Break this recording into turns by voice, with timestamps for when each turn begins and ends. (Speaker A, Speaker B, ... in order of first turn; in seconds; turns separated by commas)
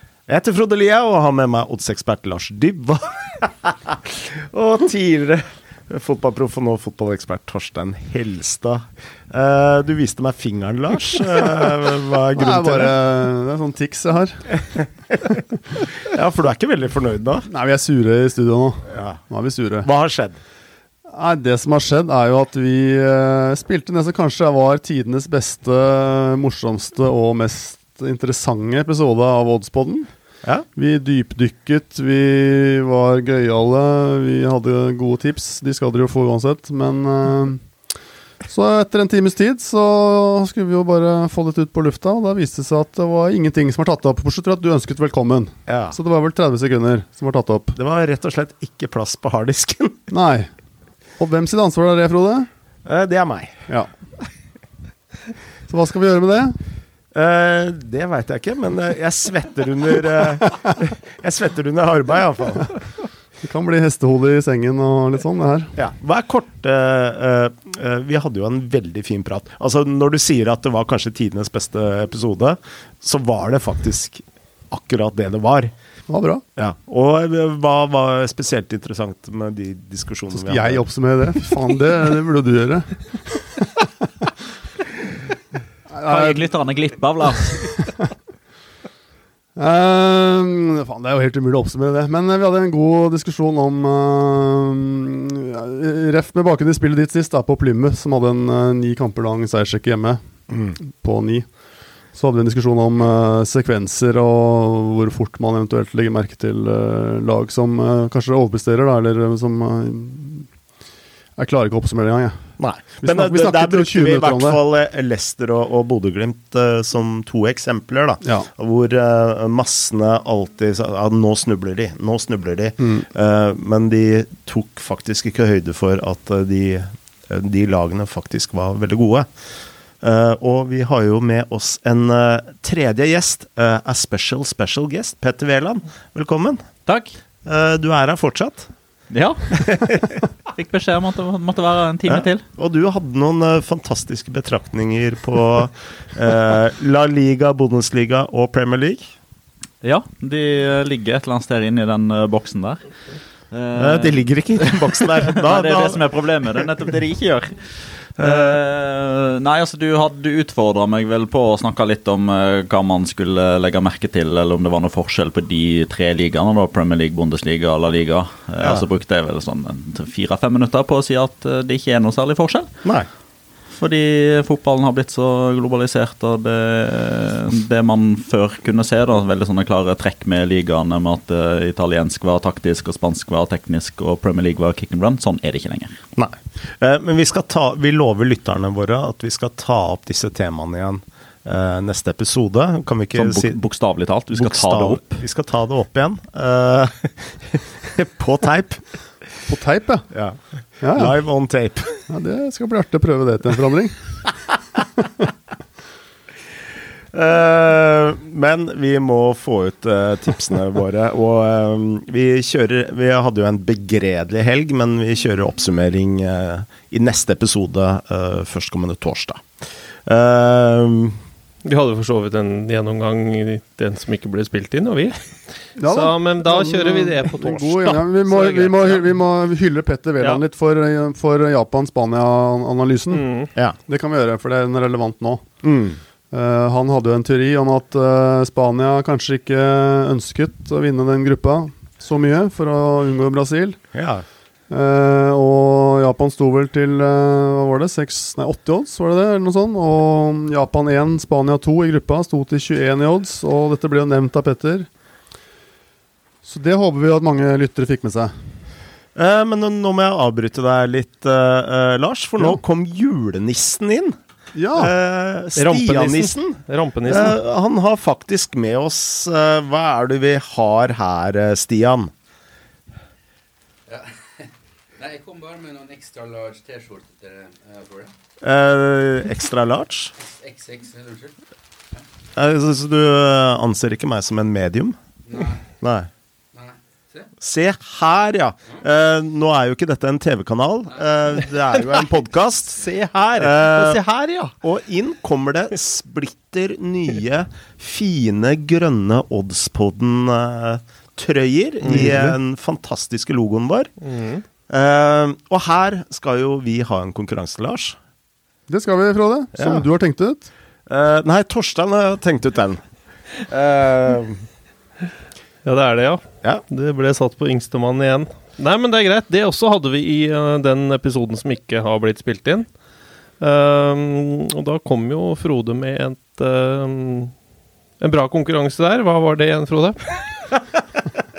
Speaker A: 0.3-13.0, Speaker B: 12.3-14.5, Speaker A: 14.8-15.1, Speaker A: 15.9-17.5, Speaker B: 17.5-19.9, Speaker A: 18.9-19.2, Speaker A: 19.8-20.4, Speaker B: 21.1-30.1, Speaker B: 30.8-37.6, Speaker B: 38.5-47.8, Speaker A: 45.7-46.0, Speaker A: 47.8-50.0, Speaker B: 50.1-50.5, Speaker B: 51.2-52.5, Speaker A: 52.9-53.6, Speaker B: 55.7-56.6, Speaker A: 57.1-62.8, Speaker B: 63.4-65.8, Speaker A: 65.8-75.7, Speaker B: 76.1-76.4, Speaker A: 76.6-80.8, Speaker B: 80.3-83.0, Speaker B: 85.9-86.5, Speaker C: 86.0-87.7, Speaker B: 87.4-88.1, Speaker B: 89.6-100.2, Speaker B: 100.8-101.5, Speaker B: 102.1-110.5, Speaker B: 111.4-112.5, Speaker A: 112.6-129.3, Speaker B: 113.0-114.6, Speaker B: 122.8-123.1, Speaker A: 130.0-136.7, Speaker C: 136.9-137.2, Speaker A: 137.4-138.7, Speaker C: 139.1-142.4, Speaker A: 139.6-140.2, Speaker A: 142.1-149.1, Speaker C: 149.8-152.9, Speaker C: 153.5-172.7, Speaker A: 153.8-156.0, Speaker A: 158.2-158.6, Speaker C: 173.7-186.0, Speaker A: 186.2-193.6, Speaker C: 193.2-195.2, Speaker A: 194.3-198.8, Speaker B: 199.5-200.1, Speaker A: 200.1-200.4, Speaker B: 200.8-201.2, Speaker A: 200.9-202.0, Speaker B: 202.1-204.0, Speaker A: 207.1-219.5, Speaker A: 220.1-221.2, Speaker D: 221.6-229.1, Speaker B: 225.8-233.3, Speaker D: 233.1-233.5, Speaker B: 233.9-235.4, Speaker A: 235.6-236.0, Speaker B: 236.3-243.8, Speaker A: 243.9-244.2, Speaker B: 244.7-254.9, Speaker B: 256.4-258.3, Speaker A: 259.1-264.2, Speaker B: 264.6-264.9, Speaker A: 264.8-272.1, Speaker D: 265.6-267.4, Speaker E: 273.9-278.1, Speaker A: 278.4-280.1, Speaker E: 280.2-281.4, Speaker A: 282.4-285.0, Speaker E: 285.2-285.7, Speaker A: 285.8-286.1, Speaker E: 286.5-287.3, Speaker A: 287.4-294.0, Speaker D: 292.8-294.6, Speaker A: 294.6-303.9, Speaker D: 301.9-302.1, Speaker B: 301.9-302.4, Speaker D: 304.0-304.4, Speaker A: 304.7-308.0, Speaker B: 308.7-310.5, Speaker A: 309.5-309.9, Speaker A: 310.9-312.8, Speaker A: 313.5-314.5, Speaker D: 315.6-322.7, Speaker D: 323.4-327.3, Speaker D: 328.0-330.2